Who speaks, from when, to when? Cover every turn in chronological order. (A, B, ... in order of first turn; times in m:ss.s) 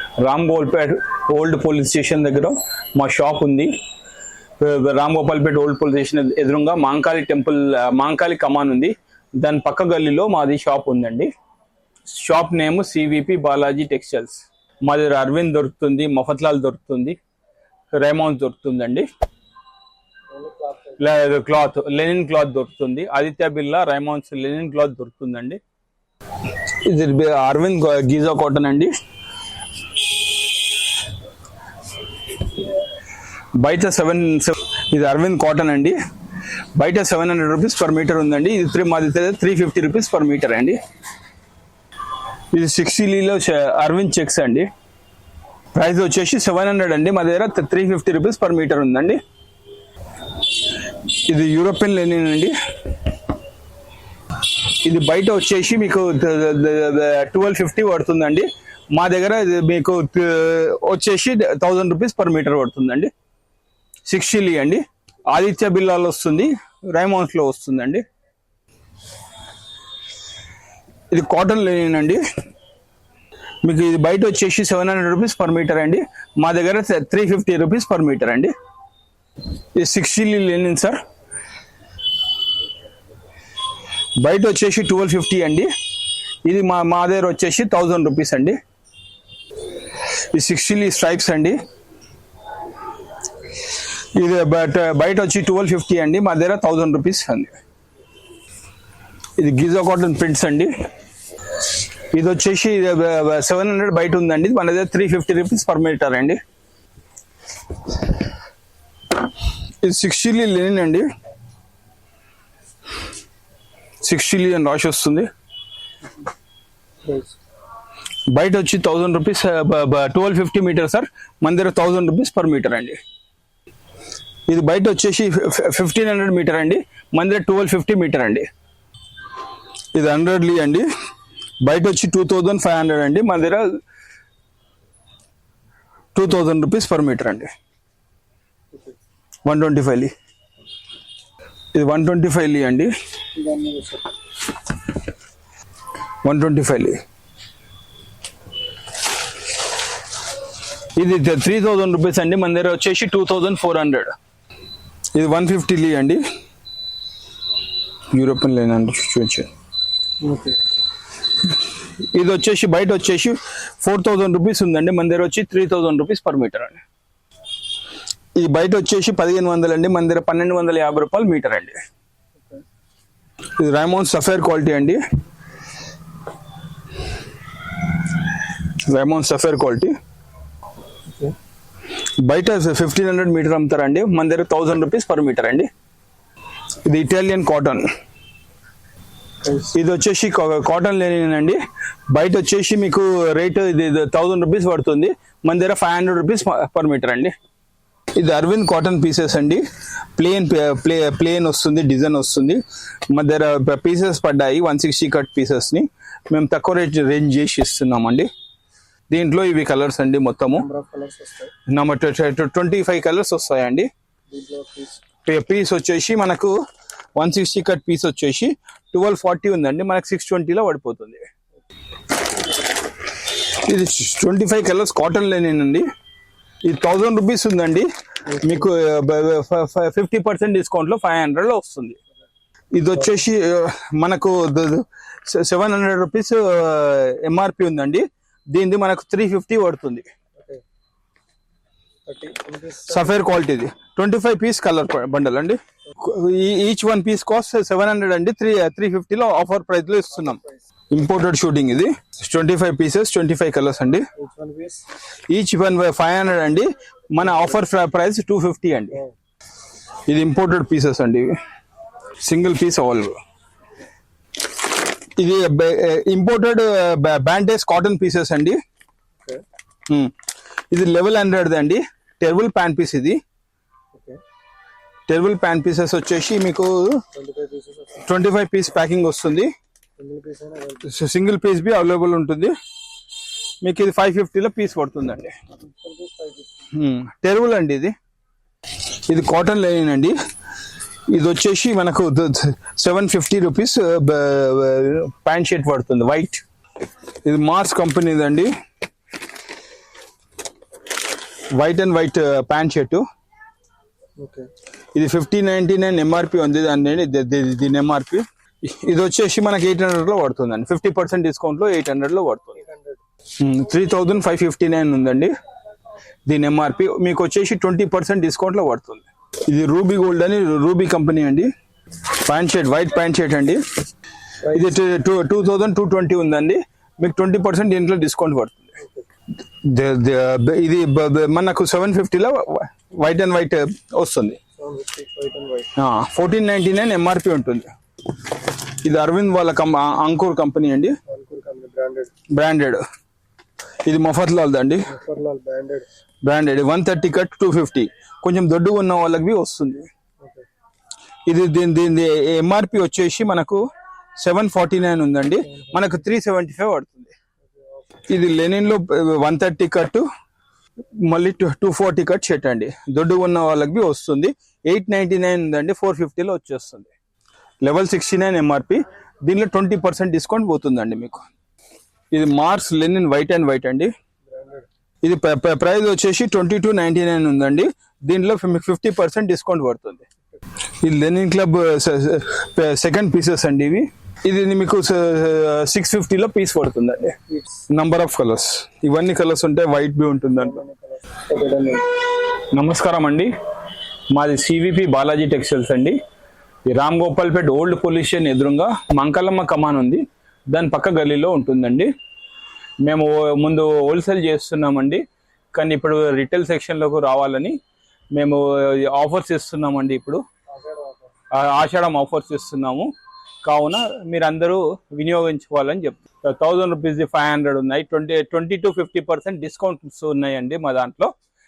0:00.2-0:03.8 A
0:04.6-0:11.3 A
0:12.1-0:17.2 A
0:17.9-0:19.1 A
0:20.3-0:21.0 B
0:21.0-0:25.6 A
0:26.8-0:29.0 A
0:32.4-0:32.7 A
0:33.6-0:36.0 A
0:36.8-0:40.8 A
0:42.5-0:44.7 A
0:45.7-0:49.2 A
0:50.5-0:53.3 A
0:54.5-1:03.1 A
1:04.1-1:08.0 A
1:11.1-1:12.2 A
1:13.6-1:18.5 A
1:19.8-1:21.0 A
1:24.2-1:25.7 A
1:26.4-1:28.6 A
1:30.3-1:31.6 A
1:34.2-1:37.6 A
1:39.4-1:40.7 A
1:41.8-1:46.4 A
1:49.8-1:51.1 A
1:54.0-1:55.3 A
1:57.0-1:57.4 B
1:58.3-2:03.0 A
2:04.5-2:08.5 A
2:10.0-2:10.9 A
2:11.6-2:13.8 A
2:16.2-2:17.5 A
2:19.5-2:20.1 A
2:21.7-2:22.9 A
2:23.4-2:24.1 B
2:26.2-2:27.0 A
2:31.0-2:34.2 A
2:35.2-2:36.2 A
2:38.1-2:39.5 A
2:40.2-2:40.6 B
2:41.4-2:46.8 A
2:48.4-2:51.8 A
2:53.6-2:55.0 A
2:58.5-3:00.0 A
3:02.2-3:05.7 A
3:06.8-3:07.9 A
3:09.4-3:09.7 B
3:09.7-3:17.3 A
3:18.2-3:19.6 A
3:20.2-3:28.3 A
3:29.1-3:30.7 A
3:30.6-3:31.5 B
3:31.7-3:33.9 A
3:34.3-3:35.0 B
3:35.2-3:36.6 A
3:37.2-3:41.3 A
3:43.1-3:45.9 A
3:46.6-3:52.0 A
3:48.3-3:48.6 B
3:52.7-4:00.1 A
4:00.4-4:00.6 B
4:02.1-4:03.2 B
4:02.8-4:10.4 A
4:10.2-4:10.4 B
4:10.9-4:14.1 A
4:14.2-4:14.9 B
4:15.3-4:19.0 A
4:20.1-4:21.4 A
4:22.2-4:23.2 A
4:25.0-4:28.6 A
4:29.9-4:30.1 A
4:30.7-4:33.2 A
4:33.9-4:34.2 B
4:35.1-4:37.0 A
4:37.1-4:38.1 B
4:38.0-4:39.5 A
4:40.0-4:40.9 B
4:40.8-4:42.5 A
4:43.6-4:45.4 A
4:45.7-4:46.5 B
4:46.7-4:47.9 A
4:48.8-4:50.2 A
4:51.1-4:56.4 A
4:57.2-4:58.5 A
5:01.5-5:03.0 A
5:04.2-5:04.5 B
5:04.9-5:12.6 A
5:12.6-5:13.0 B
5:13.4-5:15.3 A
5:16.3-5:21.5 A
5:22.0-5:23.6 A
5:24.5-5:28.8 A
5:28.8-5:29.1 B
5:29.6-5:34.4 A
5:34.6-5:35.7 B
5:35.8-5:41.0 A
5:41.1-5:42.1 B
5:42.3-5:42.8 A
5:43.8-5:44.9 A
5:44.9-5:45.9 B
5:46.2-5:49.9 A
5:51.3-5:53.6 A
5:54.2-5:57.2 A
5:55.5-5:56.0 B
5:57.4-5:57.9 B
5:58.1-6:00.1 A
6:01.0-6:06.9 A
6:07.6-6:11.2 A
6:12.1-6:13.9 A
6:14.3-6:14.7 B
6:15.0-6:20.0 A
6:20.8-6:27.2 A
6:27.7-6:30.6 A
6:30.4-6:31.9 B
6:32.5-6:33.3 A
6:34.1-6:36.0 A
6:36.7-6:41.9 A
6:42.8-6:45.0 A
6:45.6-6:47.6 A
6:48.1-6:50.2 A
6:50.5-6:51.1 B
6:51.3-6:52.9 A
6:53.4-7:01.1 A